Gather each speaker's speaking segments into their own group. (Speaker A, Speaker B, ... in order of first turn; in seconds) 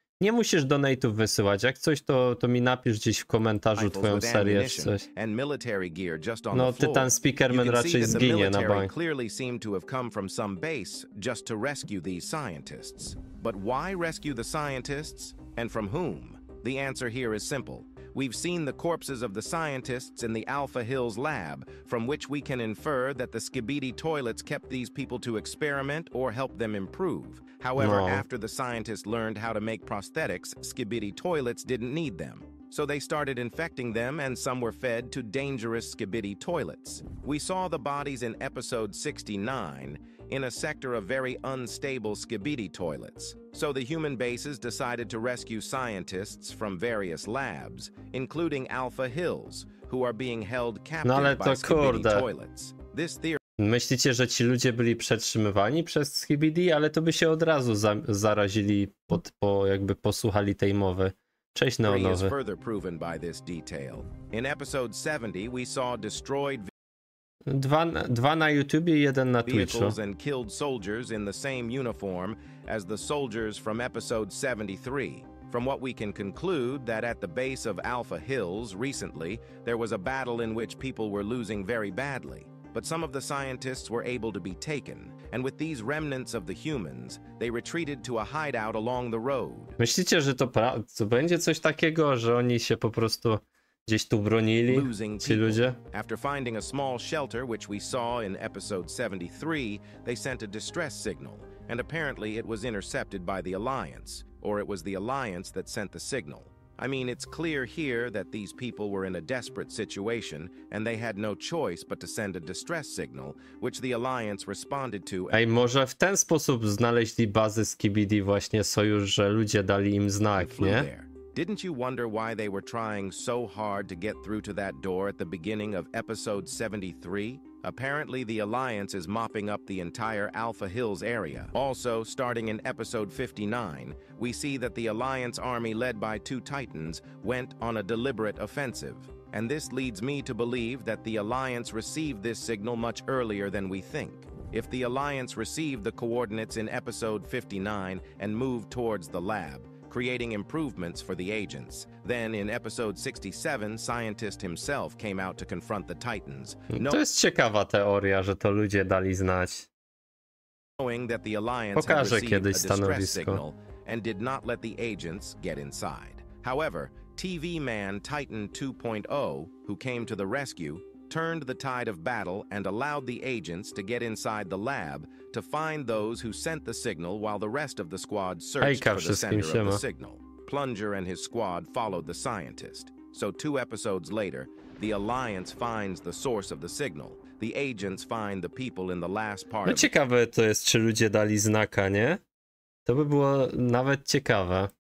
Speaker A: 0.2-5.0, 6.5-8.9, 27.8-28.2, 51.0-52.3, 53.6-62.3, 67.5-70.0, 89.8-95.8, 115.3-120.9, 156.7-159.7, 161.8-163.4, 178.6-179.8, 189.7-192.2, 192.9-194.7
Speaker B: 3.8-53.4, 61.9-66.7, 69.5-89.8, 94.7-115.4, 120.4-157.0, 160.8-189.9